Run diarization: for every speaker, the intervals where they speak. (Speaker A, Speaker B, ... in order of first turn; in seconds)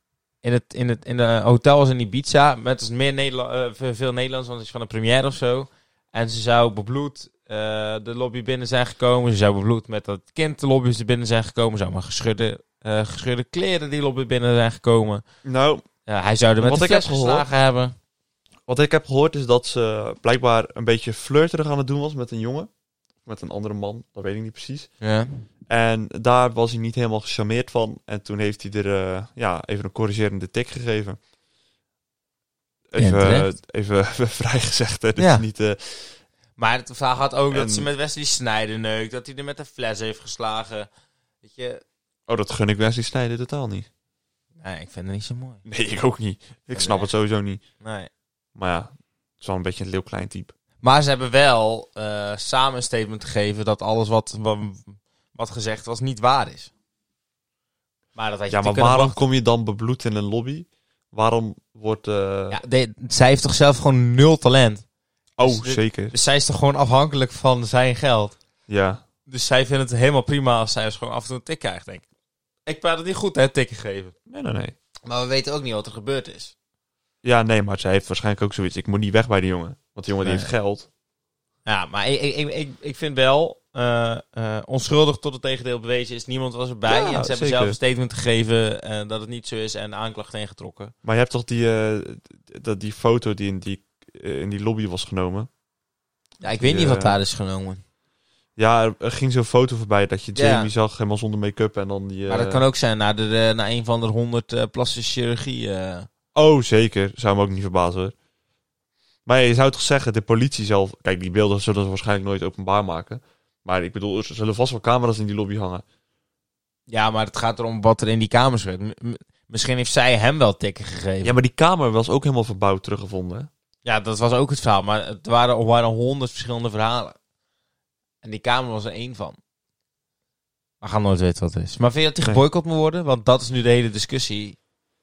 Speaker A: 0.4-15.2, 16.1-17.9, 25.0-25.4, 33.0-33.5, 35.2-35.5, 36.6-40.9, 41.4-41.8, 44.6-45.6, 46.7-47.1, 47.8-48.1, 50.8-56.7, 58.1-59.2, 62.5-64.8, 65.4-68.4, 69.3-72.0, 72.7-74.1, 75.1-76.5, 80.2-80.5, 81.7-90.9, 96.4-97.8, 100.3-100.7, 102.3-106.1, 116.9-121.3, 123.8-127.2, 128.2-129.4, 130.8-134.6
Speaker B: 15.4-15.8, 16.6-17.4, 18.7-22.7, 23.2-24.9, 25.7-31.2, 32.9-36.1, 37.5-37.9, 42.3-43.9, 45.7-47.6, 48.6-50.5, 58.5-62.6, 65.4-66.1, 68.7-69.0, 74.3-74.8, 77.2-80.9, 86.9-87.8, 91.0-95.5, 96.5-97.2, 98.6-102.7, 106.3-108.1, 109.3-115.8, 121.2-123.5